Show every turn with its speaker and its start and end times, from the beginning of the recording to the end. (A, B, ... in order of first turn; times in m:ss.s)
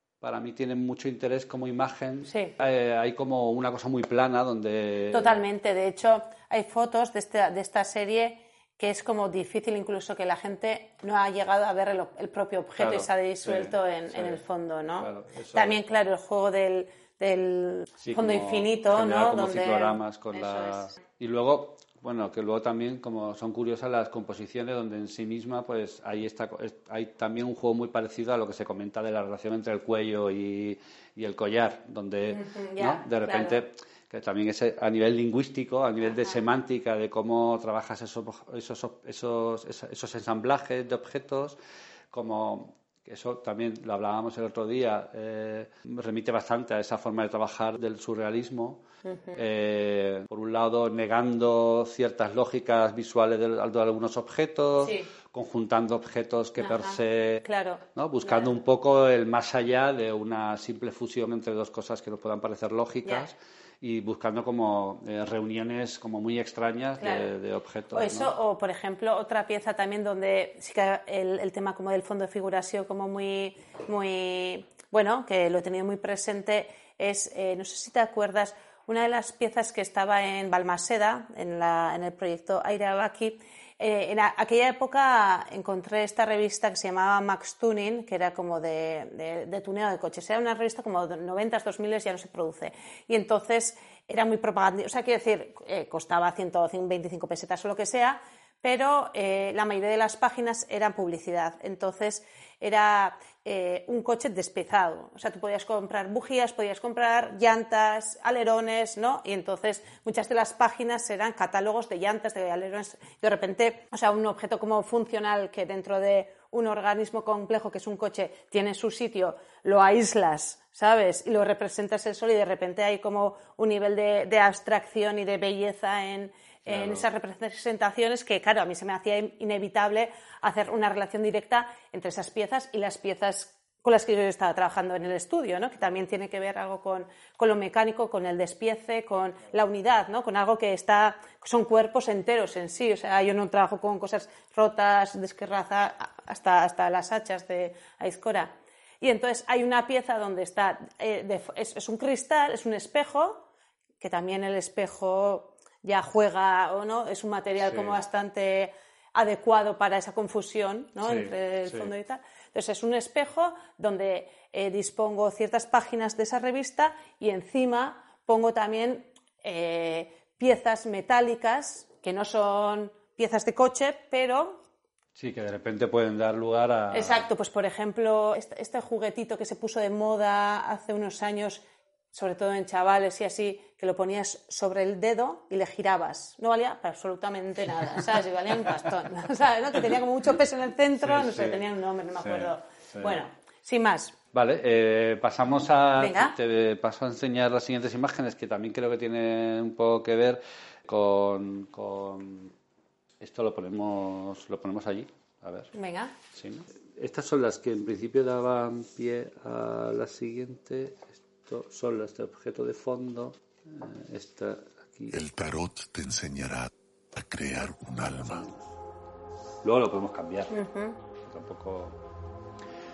0:00.2-0:05.4 A
0:02.3-0:02.5 B
0:05.1-0:20.9 B
0:12.8-0:14.4 A
0:15.0-0:15.8 A
0:18.0-0:41.6 A
0:32.3-0:33.6 B
0:42.1-0:48.8 A
0:49.0-0:49.4 B
0:49.3-1:08.3 A
0:54.8-0:55.1 B
0:56.6-0:58.5 B
1:07.0-1:07.3 B
1:07.9-2:33.4 B
2:06.6-2:07.0 A
2:34.0-2:54.6 B
2:37.6-2:38.0 A
2:41.0-2:41.9 A
2:55.2-2:57.3 A
2:56.9-3:14.1 B
3:11.0-3:13.2 A
3:14.3-3:22.5 A
3:16.0-3:16.3 B
3:23.2-3:25.7 A
3:25.7-3:26.1 B
3:26.3-3:35.2 A
3:35.1-3:38.5 C
3:39.6-3:40.6 A
3:40.5-3:41.0 B
3:41.2-3:42.0 A